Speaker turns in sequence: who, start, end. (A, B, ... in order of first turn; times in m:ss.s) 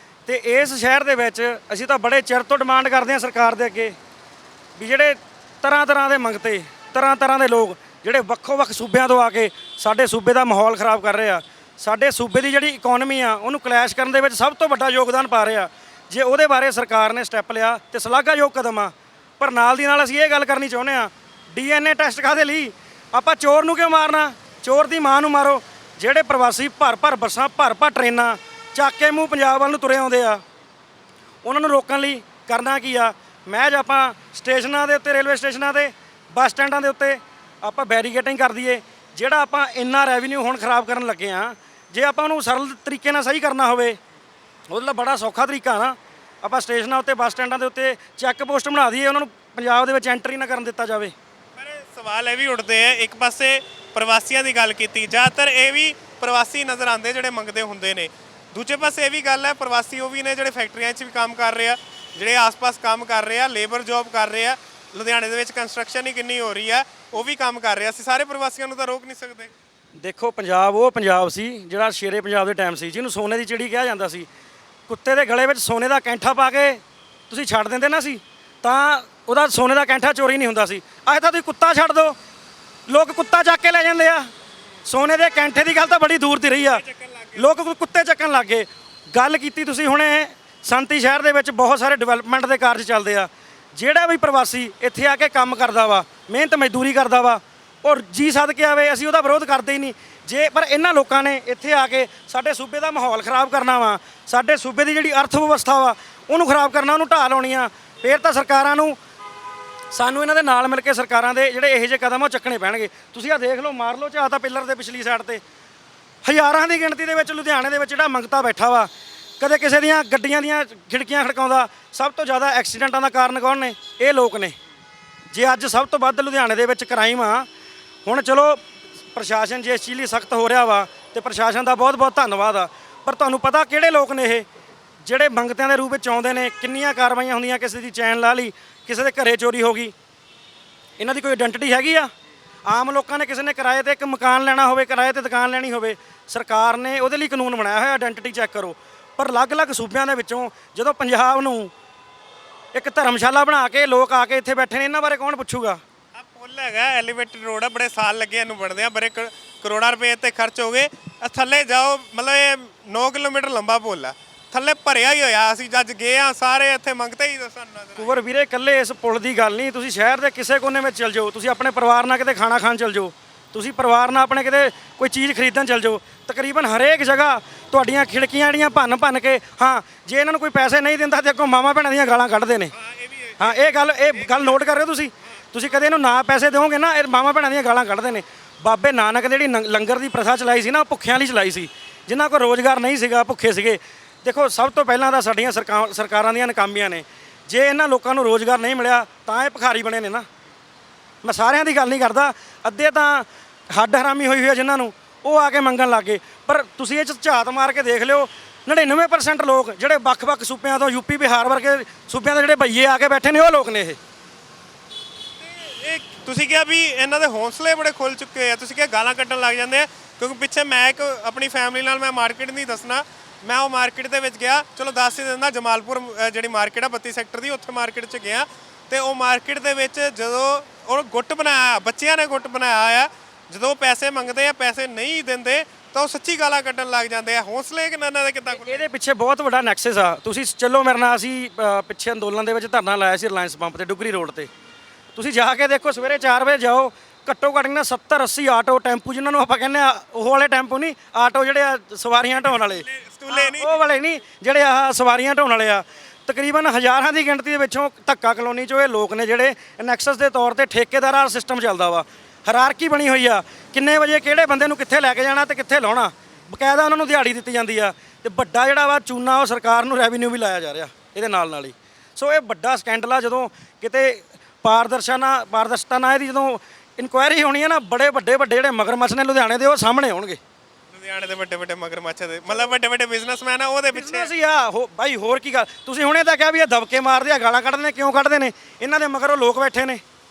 0:00.3-0:04.0 A
0:04.8-0:30.4 A
0:31.4-0:44.0 A
0:44.7-0:51.1 A
0:51.6-1:09.5 B
1:10.0-1:14.3 A
1:14.9-1:22.2 A
1:22.9-1:24.3 A
1:24.9-1:26.8 A
1:26.6-1:27.5 B
1:27.4-1:49.0 A
1:49.9-1:55.4 A
1:56.2-2:04.6 A
2:05.3-2:07.5 A
2:08.0-2:08.6 A
2:09.1-2:14.5 A
2:15.0-2:19.9 A
2:21.0-2:22.1 A
2:22.7-2:31.7 A
2:32.7-2:35.8 A
2:36.1-2:48.1 B
2:48.0-3:02.7 A
3:02.7-3:04.6 B
3:03.4-3:20.3 A
3:21.2-3:34.0 A
3:35.4-3:58.9 B
3:58.5-4:04.5 A
4:05.2-4:40.4 A
4:12.5-4:13.8 B
4:40.9-4:44.3 B
4:43.9-4:50.0 A